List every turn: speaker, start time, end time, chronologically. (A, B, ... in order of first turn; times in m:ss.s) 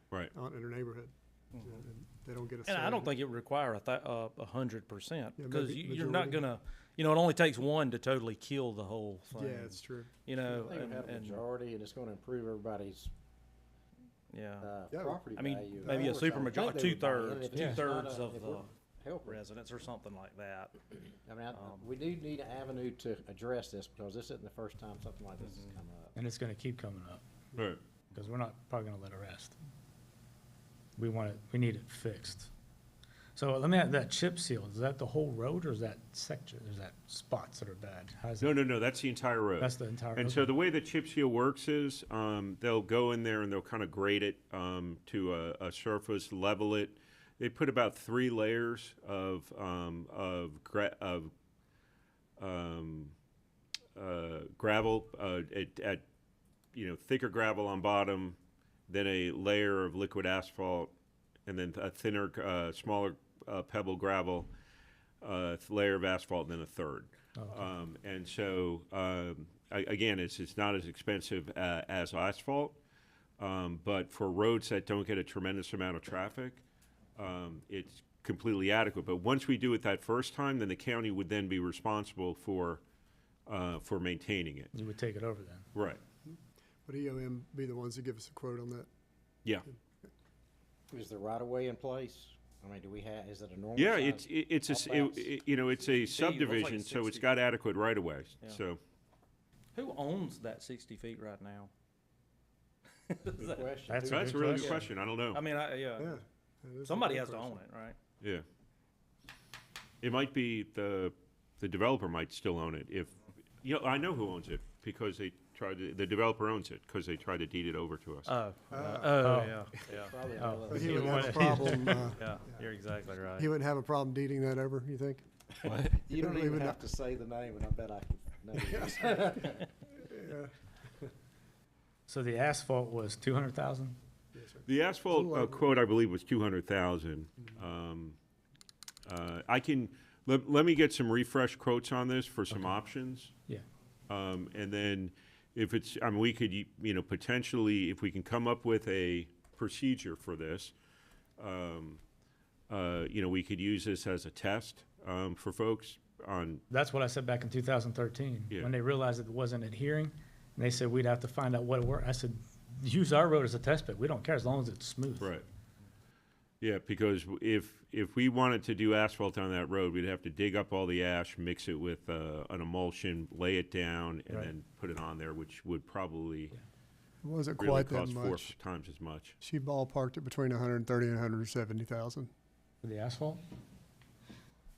0:00.3-0:03.2 A
0:02.7-0:11.4 B
0:05.4-0:06.4 A
0:09.3-0:10.1 A
0:10.4-0:13.1 C
0:14.3-0:14.7 B
0:14.6-0:19.4 C
0:14.9-0:15.2 A
0:15.4-0:18.7 B
0:15.8-0:16.2 A
0:19.2-0:20.8 B
0:21.3-0:26.1 C
0:21.5-0:21.9 B
0:26.2-0:27.2 D
0:27.6-0:27.8 E
0:28.1-0:29.6 D
0:31.0-0:32.5 D
0:33.4-0:38.5 D
0:38.4-0:51.3 E
0:39.6-0:40.5 D
0:52.4-0:53.2 E
0:54.0-0:56.0 E
0:56.7-1:00.9 E
1:01.5-1:04.5 E
1:05.2-1:12.8 E
1:07.4-1:07.7 D
1:13.4-1:16.6 E
1:17.2-1:22.8 E
1:23.5-1:24.7 E
1:24.7-1:25.7 D
1:25.7-1:26.0 E
1:26.3-1:28.9 A
1:30.9-1:35.3 C
1:33.8-1:38.8 E
1:36.1-1:37.3 B
1:39.8-1:41.7 B
1:43.1-1:43.7 B
1:43.4-1:44.7 C
1:43.9-1:44.9 D
1:44.1-1:45.4 E
1:45.3-1:46.2 B
1:46.0-1:47.6 A
1:46.8-1:48.0 B
1:50.0-1:58.3 E
1:58.3-2:00.2 B
1:58.7-1:59.3 A
1:59.2-1:59.7 D
1:59.9-2:01.5 C
2:00.4-2:02.1 D
2:00.7-2:02.7 A
2:00.7-2:03.5 B
2:03.4-2:05.3 A
2:05.6-2:06.0 E
2:05.7-2:09.6 C
2:06.1-2:06.8 A
2:08.7-2:09.3 A
2:10.0-2:10.5 A
2:12.1-2:14.0 D
2:14.3-2:15.7 A
2:14.7-2:18.2 E
2:19.1-2:23.3 E
2:24.1-2:30.7 E
2:31.4-2:32.0 E
2:32.7-2:36.6 E
2:36.7-2:45.3 D
2:45.2-2:45.5 E
2:46.6-2:56.5 E
2:57.2-2:58.6 A
2:57.6-2:59.4 E
2:59.4-3:02.3 A
3:02.8-3:03.4 D